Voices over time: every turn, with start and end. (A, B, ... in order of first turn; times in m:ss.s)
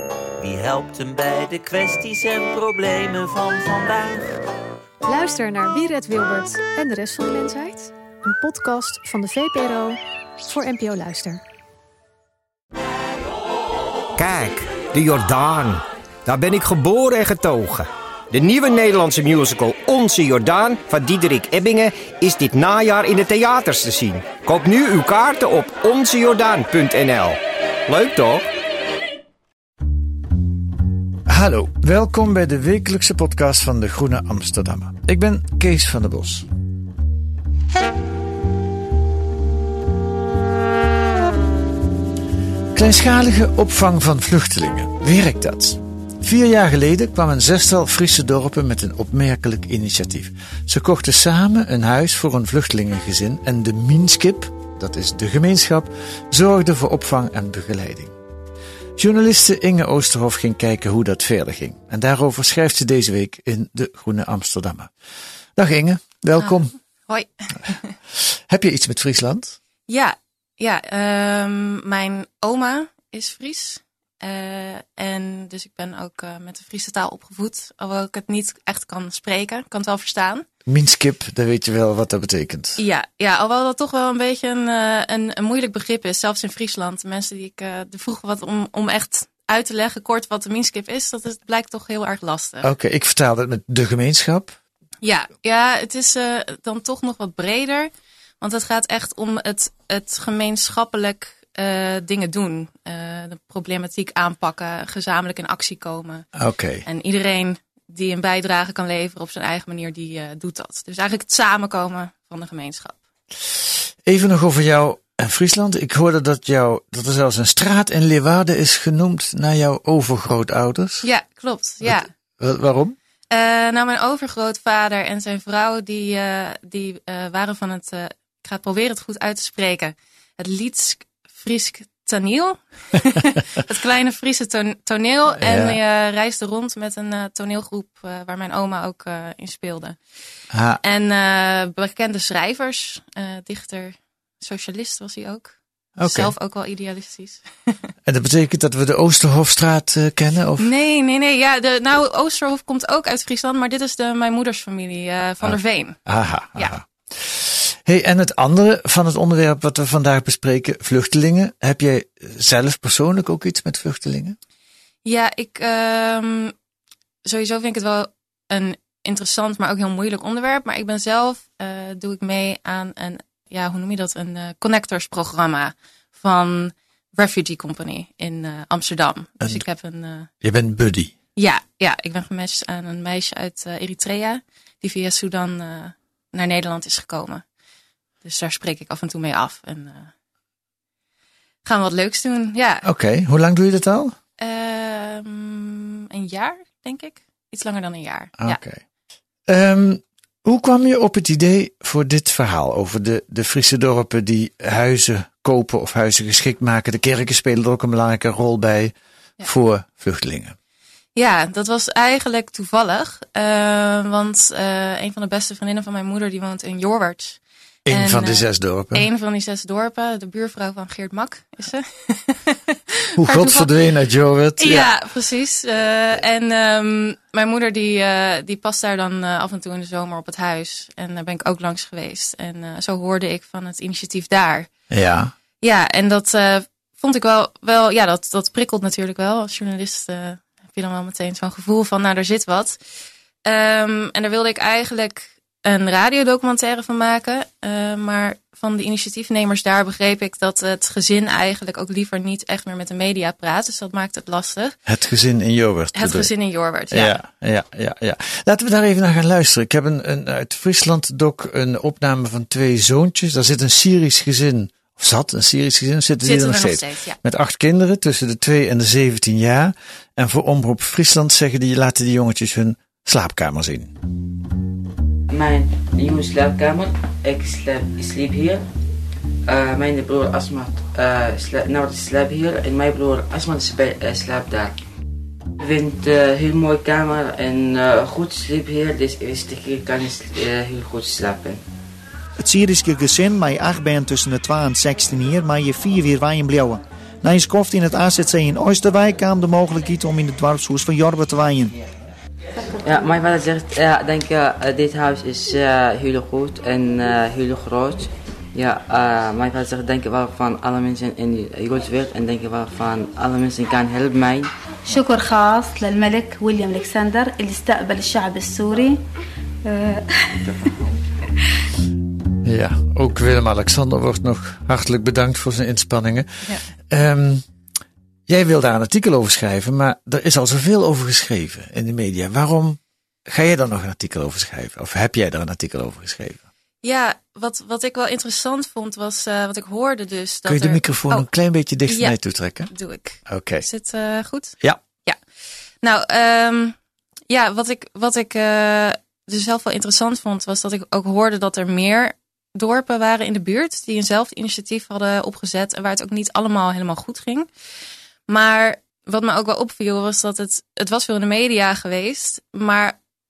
0:00.4-0:04.2 A
0:05.0-0:11.4 B
0:14.2-0:28.4 C
0:31.3-0:36.5 D
0:42.7-0:58.1 D
0:59.0-1:04.9 D
1:05.6-1:06.7 D
1:06.4-1:07.9 E
1:08.2-1:09.6 D
1:09.9-1:20.4 E
1:20.6-1:22.8 D
1:22.8-1:32.7 E
1:32.6-1:34.5 D
1:35.0-1:46.3 E
1:46.3-1:46.8 D
1:46.8-1:53.0 E
1:54.0-2:01.1 D
2:01.0-2:02.1 E
2:01.8-2:03.0 D
2:03.3-2:20.0 E
2:15.4-2:15.8 D
2:20.5-2:20.8 D
2:20.8-2:27.7 E
2:26.0-2:26.3 D
2:28.0-2:30.7 D
2:30.6-2:36.0 E
2:35.4-2:44.4 D
2:45.0-2:46.5 E
2:47.2-3:00.3 E
3:00.4-3:01.1 D
3:01.4-3:07.4 E
3:08.2-3:10.1 E
3:11.6-3:12.8 E
3:12.8-3:14.1 D
3:14.4-3:18.6 E
3:18.4-3:18.8 D
3:19.5-3:30.5 D
3:31.1-3:43.7 E
3:37.9-3:39.1 D
3:43.2-3:45.0 D
3:44.6-3:54.7 E
3:54.9-3:55.3 D
3:55.6-4:02.8 E
4:03.4-4:14.8 E
4:14.9-4:16.3 D
4:15.9-4:17.2 E
4:16.9-4:33.9 D
4:26.2-4:27.2 E
4:35.3-4:38.6 F
4:39.5-4:44.8 F
4:45.6-4:51.6 F
4:52.4-5:01.7 G
5:02.7-5:14.5 F
5:14.9-5:15.8 A
5:15.0-5:19.0 H
5:16.3-5:16.9 A
5:19.6-5:20.0 H
5:22.4-5:26.3 D
5:26.9-5:27.4 D
5:28.3-5:36.4 D
5:36.8-5:41.3 E
5:40.4-5:42.7 D
5:41.8-5:42.2 E
5:42.7-5:45.2 E
5:43.2-5:43.7 D
5:45.8-5:46.8 E
5:47.3-5:57.5 E
5:58.3-6:03.0 E